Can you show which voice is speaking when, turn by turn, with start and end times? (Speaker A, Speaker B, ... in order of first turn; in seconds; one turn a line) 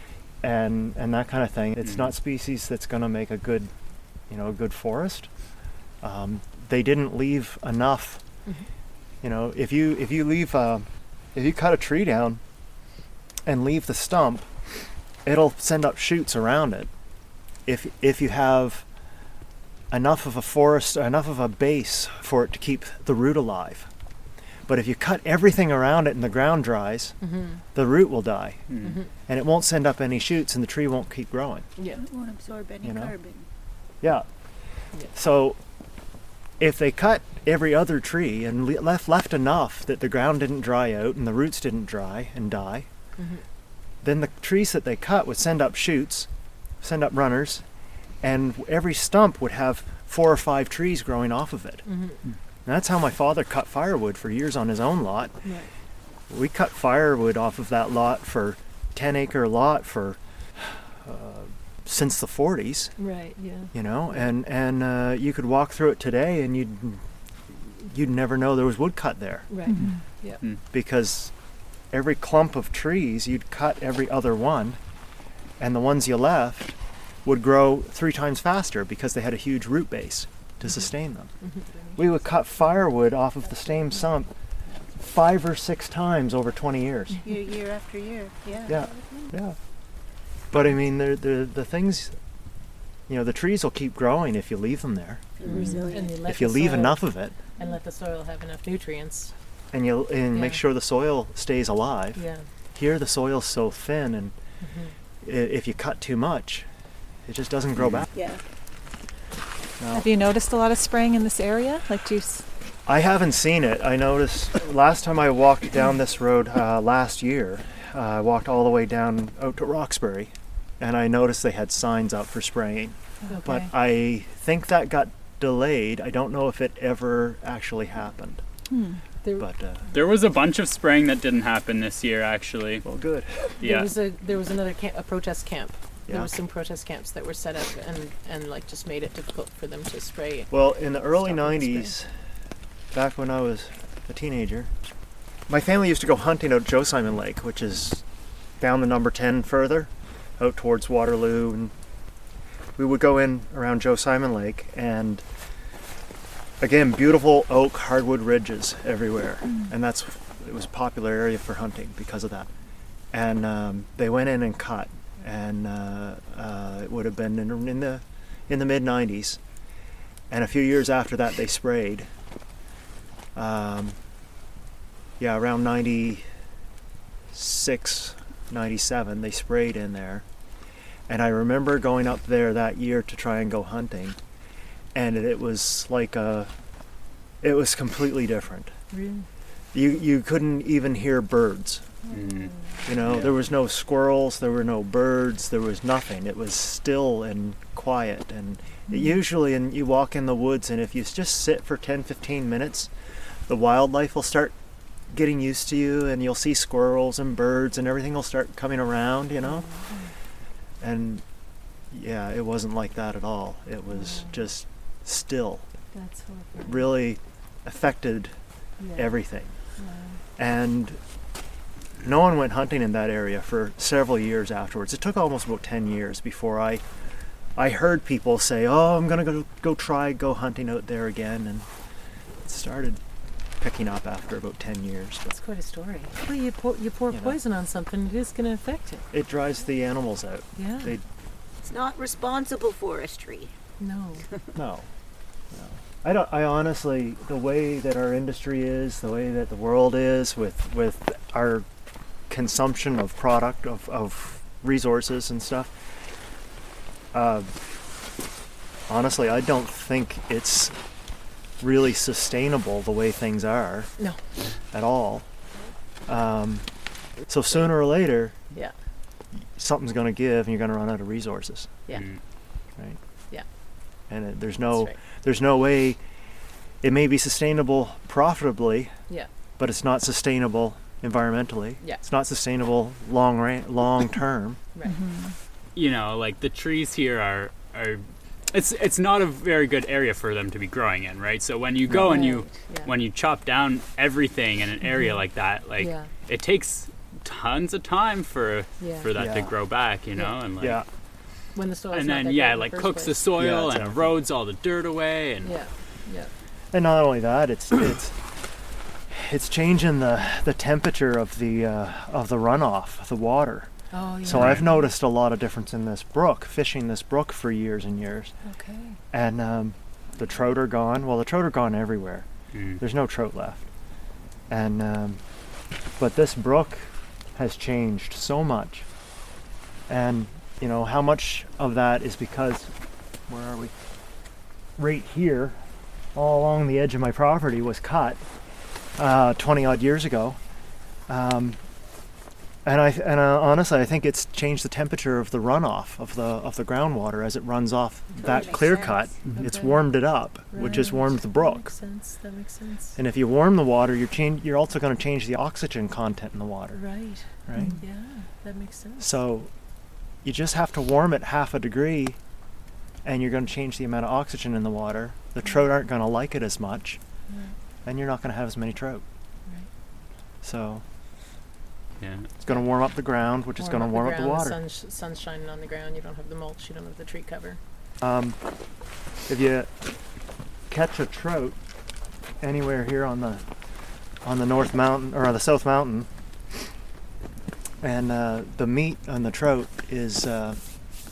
Speaker A: 0.4-3.7
Speaker B: 1.8-2.1
Speaker A: 4.3-5.3
Speaker A: 6.0-8.2
Speaker A: 9.2-12.4
Speaker A: 13.4-16.9
Speaker A: 17.7-18.9
Speaker A: 19.9-23.9
Speaker A: 24.7-31.7
Speaker C: 27.2-27.6
Speaker B: 28.7-29.1
Speaker C: 28.8-29.1
Speaker C: 31.8-32.0
Speaker D: 31.9-33.5
Speaker A: 32.8-33.2
Speaker A: 34.0-35.6
Speaker A: 36.6-42.9
Speaker C: 43.2-43.4
Speaker A: 44.0-46.3
Speaker A: 46.8-47.6
Speaker A: 48.2-51.9
Speaker C: 51.9-52.2
Speaker A: 52.6-55.4
Speaker C: 55.4-55.7
Speaker A: 56.3-63.0
Speaker C: 63.0-64.3
Speaker A: 63.7-69.5
Speaker C: 69.5-70.4
Speaker E: 69.7-70.0
Speaker A: 70.7-71.3
Speaker A: 71.9-74.8
Speaker A: 75.6-81.3
Speaker C: 81.4-82.0
Speaker A: 82.0-84.3
Speaker A: 85.0-87.2
Speaker D: 87.2-89.3
Speaker A: 88.7-89.6
Speaker A: 90.5-92.2
Speaker A: 93.1-95.7
Speaker D: 95.4-96.3
Speaker C: 95.4-99.3
Speaker A: 96.3-97.4
Speaker A: 99.7-104.3
Speaker C: 100.3-100.6
Speaker C: 102.2-102.5
Speaker C: 104.6-105.0
Speaker A: 105.2-106.7
Speaker A: 107.2-108.1
Speaker D: 108.1-108.4
Speaker A: 109.8-110.1
Speaker E: 109.9-112.5
Speaker A: 112.9-128.4
Speaker E: 123.2-123.7
Speaker C: 123.3-123.7
Speaker E: 128.7-129.0
Speaker A: 129.4-129.9
Speaker B: 129.9-132.8
Speaker A: 132.8-133.6
Speaker B: 133.6-133.9
Speaker C: 133.6-140.5
Speaker A: 140.5-142.1
Speaker C: 141.1-141.9
Speaker A: 142.9-144.7
Speaker A: 145.5-148.0
Speaker A: 148.6-151.7
Speaker A: 152.8-155.2
Speaker A: 156.6-162.5
Speaker A: 163.1-169.4
Speaker A: 170.3-172.1
Speaker A: 173.3-174.0
Speaker A: 175.2-176.2
Speaker A: 177.3-180.2
Speaker A: 181.1-184.2
Speaker A: 184.9-186.5
Speaker A: 187.4-188.7
Speaker C: 188.9-189.3
Speaker A: 189.7-191.9
Speaker B: 192.1-192.6
Speaker C: 192.1-192.7
Speaker A: 192.8-202.9
Speaker A: 203.5-204.6
Speaker A: 205.1-209.7
Speaker C: 209.4-209.9
Speaker A: 210.8-211.2
Speaker A: 211.9-215.7
Speaker C: 213.9-214.5
Speaker C: 215.9-216.9
Speaker A: 216.6-219.6
Speaker C: 218.8-219.2
Speaker C: 219.8-220.2
Speaker A: 220.4-221.0
Speaker A: 222.0-226.8
Speaker A: 227.6-231.7
Speaker A: 232.4-233.0
Speaker A: 233.6-235.3
Speaker C: 235.3-239.1
Speaker A: 237.1-237.4
Speaker A: 239.1-241.0
Speaker C: 240.6-240.9
Speaker D: 241.6-243.5
Speaker C: 243.8-244.3
Speaker A: 244.6-244.9
Speaker A: 245.5-251.7
Speaker A: 252.3-255.8
Speaker A: 257.1-257.6
Speaker A: 258.9-260.8
Speaker A: 261.6-264.0
Speaker A: 264.7-265.3
Speaker A: 266.1-268.4
Speaker A: 269.4-271.8
Speaker B: 271.9-272.2
Speaker A: 274.1-276.0
Speaker C: 274.7-275.0
Speaker A: 276.8-279.0
Speaker A: 279.6-284.6
Speaker E: 284.9-285.3
Speaker B: 285.8-300.8
Speaker C: 291.9-292.9
Speaker C: 295.8-296.1
Speaker C: 298.8-299.1
Speaker A: 299.1-299.6
Speaker A: 300.6-300.8
Speaker C: 301.5-303.2
Speaker B: 301.9-305.6
Speaker A: 303.3-304.2
Speaker C: 305.4-306.3
Speaker A: 306.7-308.4
Speaker A: 309.1-313.7
Speaker C: 313.9-314.7
Speaker A: 314.2-318.3
Speaker B: 314.3-314.8
Speaker C: 318.4-319.0
Speaker A: 319.1-323.7
Speaker B: 322.5-322.8
Speaker A: 324.5-325.2
Speaker A: 326.0-328.9
Speaker A: 329.9-332.7
Speaker A: 333.3-333.7
Speaker A: 334.8-335.6
Speaker A: 336.1-338.2
Speaker A: 339.0-340.4
Speaker A: 341.1-341.6
Speaker A: 342.6-351.7
Speaker D: 348.2-349.2
Speaker C: 349.4-350.0
Speaker C: 350.5-353.0
Speaker A: 353.0-356.8
Speaker C: 356.7-359.1
Speaker A: 357.5-357.8
Speaker A: 359.0-359.5
Speaker A: 360.2-362.2
Speaker A: 363.0-367.0
Speaker A: 367.9-369.0
Speaker A: 370.4-370.8
Speaker B: 372.0-372.3
Speaker A: 372.4-374.6
Speaker C: 373.6-377.6
Speaker A: 378.0-378.4
Speaker A: 379.3-380.0
Speaker A: 380.7-381.6
Speaker A: 382.4-383.4
Speaker A: 384.2-386.1
Speaker A: 387.8-390.6